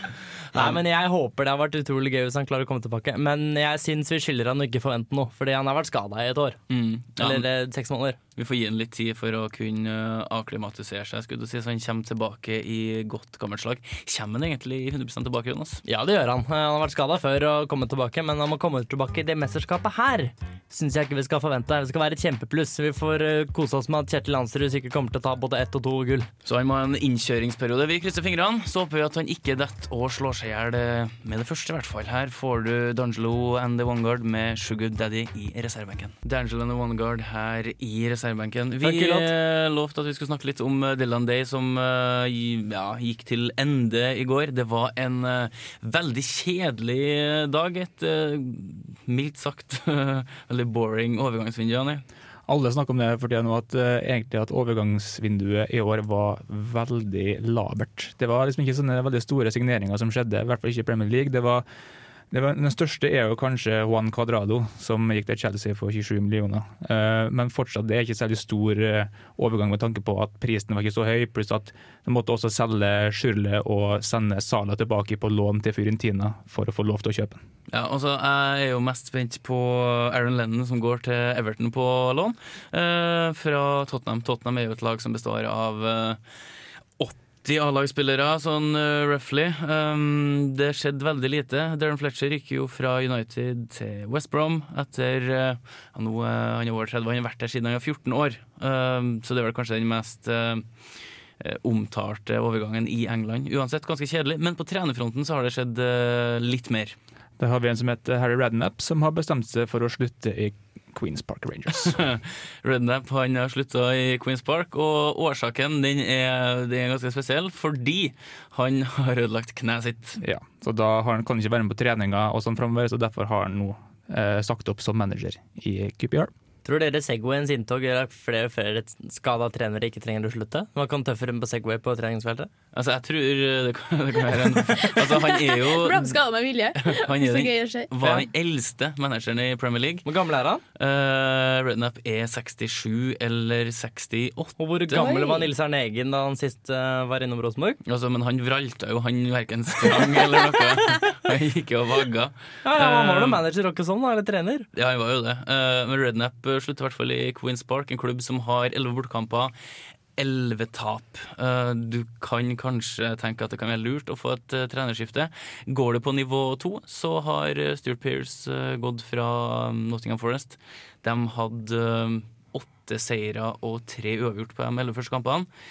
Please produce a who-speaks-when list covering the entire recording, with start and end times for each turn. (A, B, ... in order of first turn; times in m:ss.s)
0:00.5-0:06.6 A
0:06.7-0:07.4 B
0:07.2-0:08.2 A
0:08.4-0:15.8 B
0:15.8-0:26.3 A
0:26.4-0:52.0 B
0:38.8-0:39.3 A
0:52.5-1:01.6 C
1:02.3-1:17.4 C
1:17.7-1:26.2 B
1:27.0-1:40.6 B
1:41.4-1:47.0 B
1:47.4-1:52.0 C
1:51.8-2:00.2 B
2:00.2-2:06.3 C
2:06.6-2:12.5 A
2:12.7-2:16.2 B
2:14.9-2:17.9 D
2:16.8-2:20.0 B
2:20.0-2:20.6 A
2:20.8-2:25.0 B
2:24.6-2:27.8 A
2:24.9-2:25.5 D
2:27.8-2:33.4 B
2:32.6-2:34.7 A
2:34.7-2:39.5 B
2:40.2-2:55.5 B